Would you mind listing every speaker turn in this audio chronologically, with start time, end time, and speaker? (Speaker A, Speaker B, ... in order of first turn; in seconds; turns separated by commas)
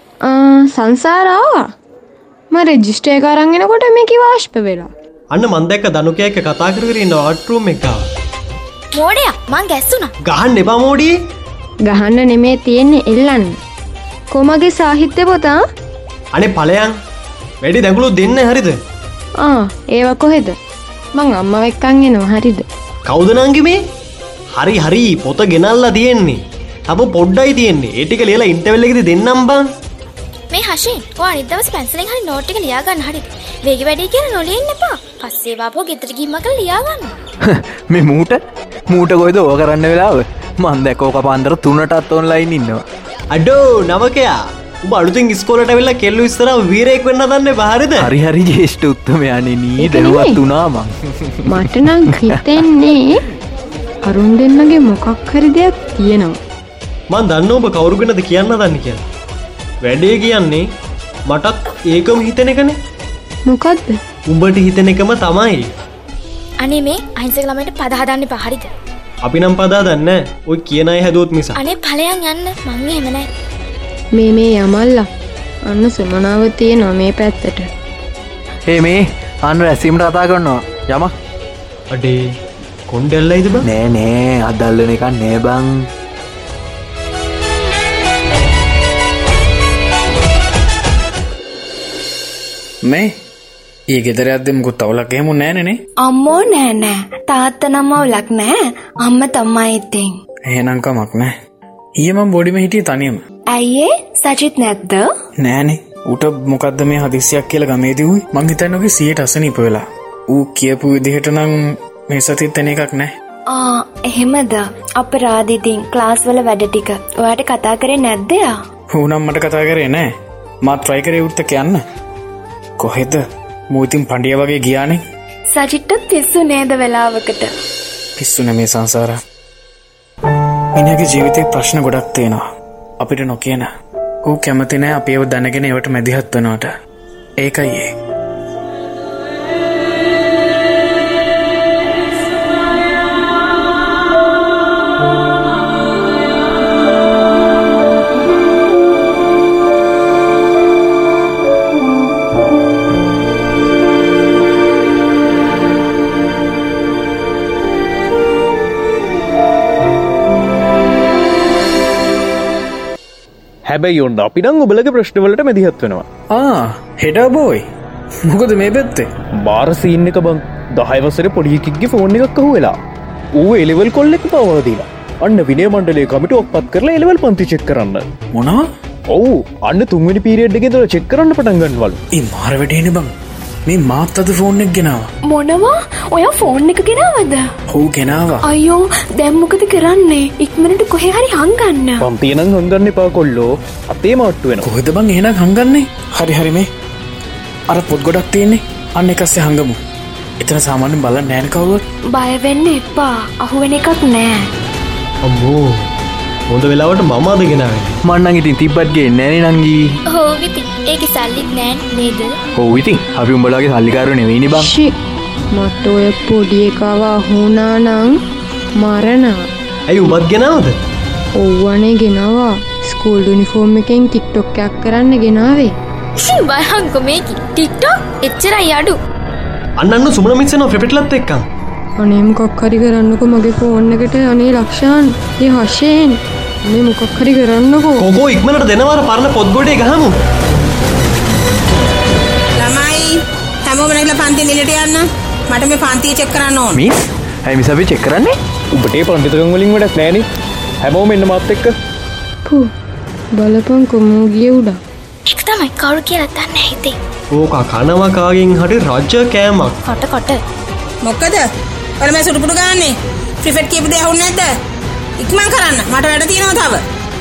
Speaker A: 0.2-1.7, Speaker A: 2.5-4.9, Speaker B: 5.3-8.0, Speaker C: 8.9-10.1, Speaker B: 10.2-11.1, Speaker A: 11.8-13.6, Speaker A: 14.3-15.6, Speaker B: 16.3-16.9, Speaker B: 17.6-18.8, Speaker A: 19.4-20.6, Speaker A: 21.1-22.6, Speaker B: 23.1-23.8, Speaker B: 24.5-29.6, Speaker C: 30.5-37.1, Speaker D: 37.4-42.8, Speaker B: 43.3-48.1, Speaker D: 48.0-52.4, Speaker A: 49.8-50.4, Speaker A: 51.5-53.2, Speaker A: 54.0-56.4, Speaker B: 57.1-59.0, Speaker B: 59.8-60.6, Speaker B: 61.3-62.8, Speaker A: 63.5-64.0, Speaker B: 64.3-65.7, Speaker C: 66.6-68.7, Speaker B: 69.2-71.6, Speaker C: 71.5-73.3, Speaker A: 74.1-75.0, Speaker A: 75.7-77.7, Speaker D: 78.7-81.1, Speaker B: 81.9-82.2, Speaker B: 82.9-83.7, Speaker D: 83.6-85.9, Speaker E: 92.8-93.1, Speaker E: 93.9-95.8, Speaker F: 96.0-100.1, Speaker E: 100.5-101.3, Speaker E: 102.0-103.2, Speaker F: 103.5-105.1, Speaker E: 105.4-113.1, Speaker F: 113.5-118.5, Speaker E: 118.9-120.1, Speaker E: 120.6-121.8, Speaker E: 122.8-125.0, Speaker F: 125.5-127.5, Speaker E: 128.2-129.2, Speaker E: 130.7-132.4, Speaker E: 133.0-133.7, Speaker E: 134.2-136.7, Speaker E: 137.4-137.9, Speaker G: 163.7-166.0, Speaker E: 166.3-167.6, Speaker E: 168.3-169.1, Speaker G: 169.4-172.8, Speaker G: 173.3-178.1, Speaker E: 178.3-178.6, Speaker G: 179.1-182.0, Speaker E: 182.1-183.1, Speaker E: 183.7-185.1, Speaker F: 185.3-187.4, Speaker E: 187.7-188.5, Speaker F: 188.5-192.1, Speaker G: 192.0-194.6, Speaker E: 194.6-196.7, Speaker E: 197.7-199.7, Speaker E: 200.4-201.8, Speaker F: 202.1-204.4, Speaker B: 205.2-205.8, Speaker B: 206.5-207.9, Speaker D: 208.0-210.0, Speaker C: 210.1-212.4, Speaker D: 212.6-214.7, Speaker A: 214.5-214.9, Speaker A: 215.5-218.2, Speaker A: 218.8-219.4, Speaker B: 219.9-220.8, Speaker A: 221.3-225.7, Speaker C: 226.2-229.0, Speaker B: 229.8-231.4, Speaker A: 232.0-238.1, Speaker B: 238.0-240.2, Speaker H: 242.6-246.8, Speaker D: 246.7-248.4, Speaker G: 248.7-250.2, Speaker G: 250.8-251.7, Speaker A: 253.3-254.8, Speaker C: 255.3-256.9, Speaker B: 257.3-259.8, Speaker C: 259.8-260.4, Speaker H: 261.0-261.4, Speaker H: 262.0-264.5, Speaker H: 265.2-266.8